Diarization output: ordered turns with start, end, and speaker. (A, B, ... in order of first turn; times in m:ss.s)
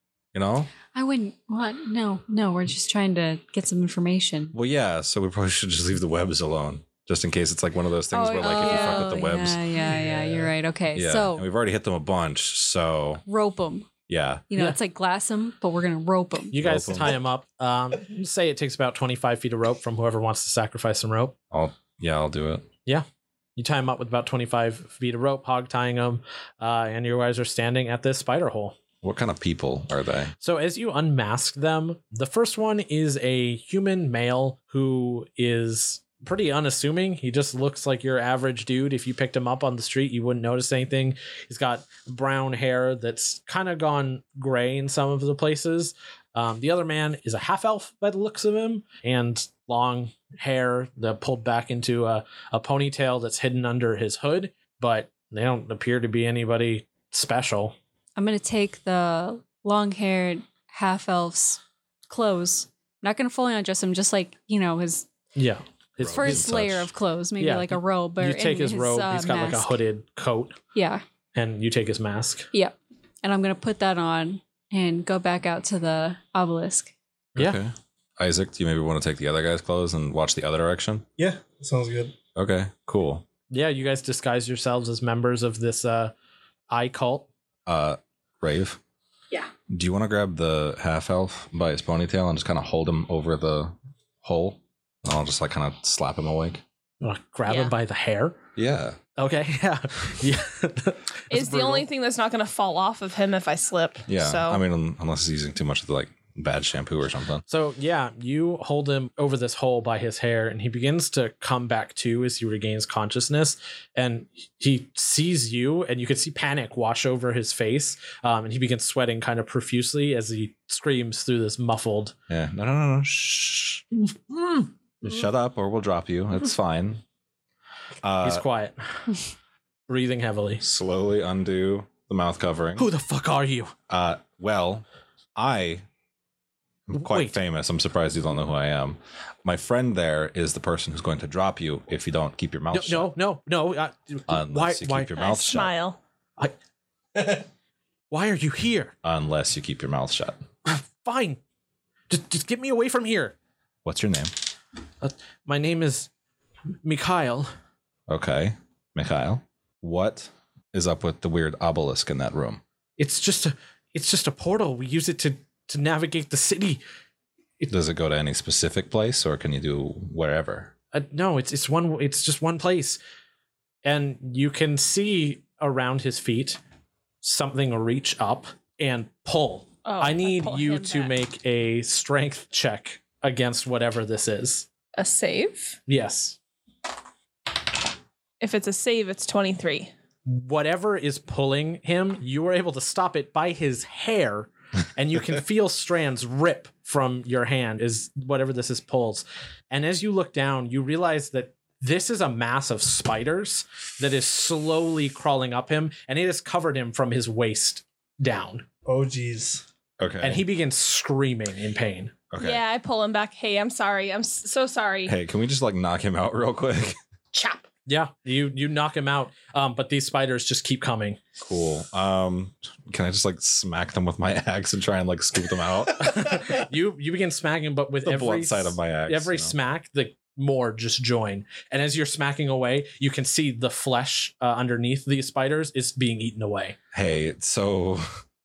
0:00.3-0:00.7 A
0:00.9-0:04.6 B
0:04.5-0:09.6 A
0:08.1-0:09.0 C
0:08.2-0:11.4 B
0:09.8-0:10.5 D
0:10.9-0:13.2 A
0:13.3-0:13.9 B
0:14.1-0:14.4 A
0:14.5-0:16.6 B
0:16.5-0:21.4 E
0:16.6-0:17.2 A
0:21.5-0:22.7 A
0:22.9-0:28.8 E
0:29.0-0:30.3 A
0:30.4-0:57.8 E
0:58.2-1:05.1 B
1:05.4-1:06.5 E
1:06.0-1:06.9 A
1:06.1-1:09.8 B
1:07.4-1:10.6 E
1:10.7-1:11.0 B
1:11.4-1:12.5 E
1:12.5-1:16.9 B
1:17.4-1:21.1 A
1:21.2-1:22.2 D
1:22.4-1:23.2 A
1:23.5-1:26.1 E
1:26.7-1:27.3 E
1:27.7-1:28.8 A
1:29.7-1:36.6 A
1:37.0-1:38.4 E
1:37.5-1:37.7 C
1:38.6-1:39.0 A
1:39.2-1:41.8 E
1:41.3-1:44.6 C
1:44.1-1:47.4 A
1:47.5-2:02.1 E
2:02.3-2:03.8 A
2:05.0-2:07.0 A
2:08.0-2:08.4 A
2:08.2-2:09.1 E
2:09.9-2:10.6 E
2:10.6-2:12.9 A
2:12.8-2:13.7 E
2:13.9-2:14.8 A
2:15.4-2:15.8 A
2:16.9-2:23.1 A
2:16.9-2:17.4 E
2:22.7-2:25.1 E
2:24.3-2:25.7 A
2:25.1-2:26.0 C
2:27.2-2:27.4 E
2:28.1-2:28.9 E
2:29.0-2:30.4 A
2:30.7-2:31.4 E
2:32.1-2:33.4 E
2:33.8-2:34.3 A
2:35.0-2:36.1 E
2:36.8-2:37.5 E
2:38.1-2:42.6 A
2:43.0-2:46.8 E
2:47.7-2:50.7 A
2:50.9-2:53.0 E
2:53.8-2:56.6 E
2:57.2-3:04.7 E
2:59.8-3:01.2 C
3:05.0-3:05.8 C
3:05.9-3:06.4 E
3:08.4-3:09.9 C
3:10.3-3:28.7 E
3:28.8-3:29.6 D
3:30.0-3:30.4 A
3:30.2-3:32.1 E
3:32.3-3:32.6 A
3:32.4-3:35.2 C
3:35.1-3:37.0 A
3:37.3-3:37.6 C
3:37.9-3:41.2 E
3:41.4-3:46.6 A
3:46.0-3:56.8 E
3:48.0-3:49.6 A
3:56.9-3:58.1 A